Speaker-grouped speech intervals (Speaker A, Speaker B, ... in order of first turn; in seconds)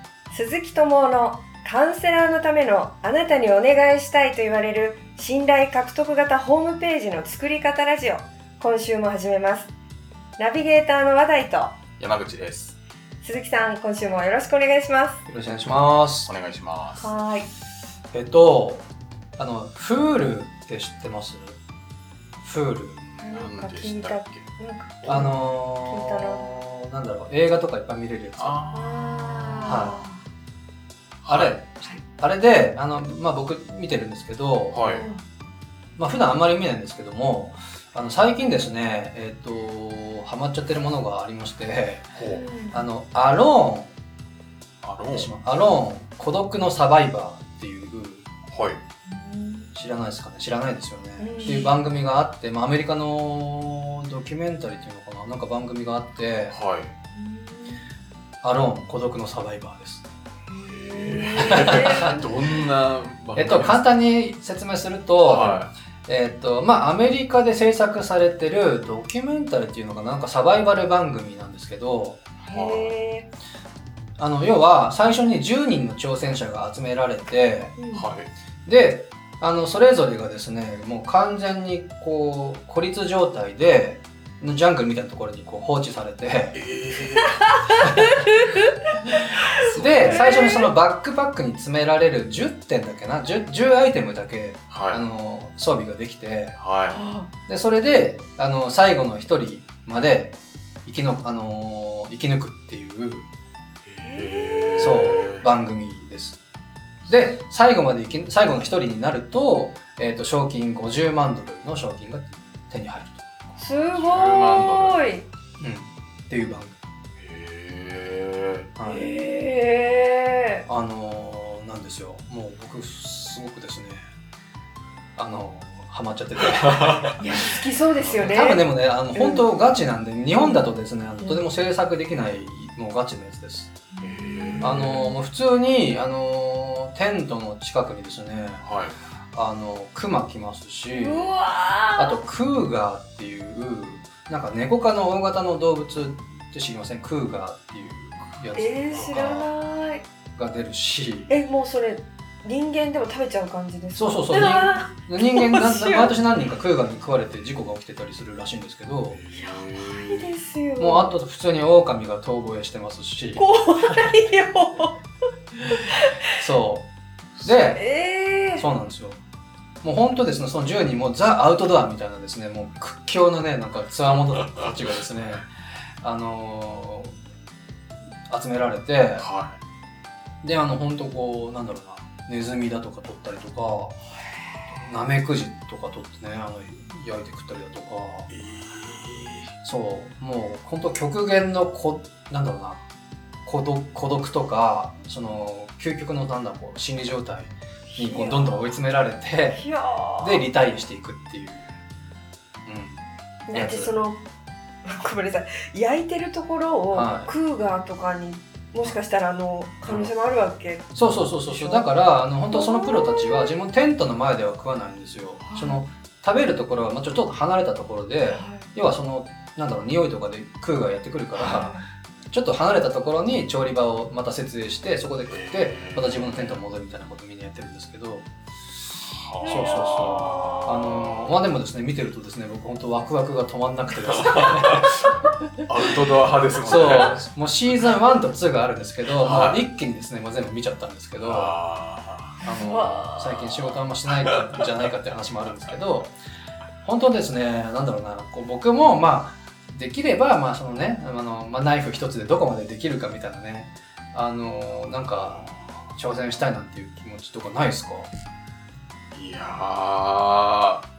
Speaker A: 0.3-9.7, 10.4-11.8, 13.2-15.2, 17.0-17.5, 23.2-26.5, 28.7-30.2, 34.8-35.2, 42.3-42.8, 49.0-49.7, 51.2-51.8, 57.1-57.9, 60.5-62.3, 72.4-73.3, 77.8-78.1, 87.5-88.7, 90.0-90.7, 96.9-97.3, 104.0-105.1, 107.1-107.4, 113.6-115.2, 118.8-120.6, 127.2-129.5, 133.9-135.0, 140.9-142.2, 148.5-150.0, 151.3-156.2, 159.8-161.2, 163.3-164.9, 167.7-168.7, 197.9-198.7, 199.5-200.5, 203.5-204.2, 204.8-210.9, 211.4-211.9, 212.5-213.5, 215.4-215.8, 218.3-218.7, 221.3-221.8, 229.4-230.6, 242.4-243.2
Speaker B: 12.0-12.8, 16.2-17.1, 23.0-24.5, 28.4-30.0, 31.2-31.6, 34.7-35.1, 42.1-42.5, 44.8-45.3, 48.5-48.8, 56.5-56.9, 60.6-63.9, 65.2-65.7, 72.5-72.9, 77.9-78.3, 86.5-87.5, 89.6-90.6, 94.7-95.0, 96.6-97.0, 103.8-105.4, 113.5-115.1, 117.2-118.7, 126.7-127.1, 128.0-128.3, 134.0-135.1, 138.6-139.0, 159.1-160.3, 179.2-179.6, 188.3-189.5, 225.3-226.6, 229.0-231.3, 234.2-235.0, 235.6-237.2, 239.1-239.6, 241.2-242.5, 243.2-243.8, 244.3-244.7, 254.8-255.9, 259.1-260.8
Speaker C: 15.3-16.3, 18.1-21.6, 22.4-23.0, 25.0-28.5, 29.7-30.0, 31.3-34.8, 36.0-42.1, 42.7-43.9, 45.1-48.3, 49.7-56.5, 58.4-60.0, 61.6-62.0, 63.4-72.2, 74.2-77.8, 78.7-86.6, 89.7-96.6, 97.5-103.3, 104.8-106.4, 107.1-113.2, 115.6-116.8, 118.8-119.1, 120.7-124.1, 125.2-127.1, 128.2-133.7, 134.6-138.7, 139.3-141.3, 142.0-149.5, 150.3-151.3, 153.9-159.2, 160.8-163.5, 166.4-166.9, 167.4-167.8, 168.6-169.2, 169.8-175.4, 176.0-177.2, 178.3-179.3, 180.4-184.0, 184.7-188.3, 189.6-192.8, 193.4-199.6, 200.2-201.7, 202.7-203.9, 206.9-207.3, 210.9-221.8, 222.3-228.3, 229.4-234.9, 236.6-241.6, 242.4-246.1, 246.8-258.1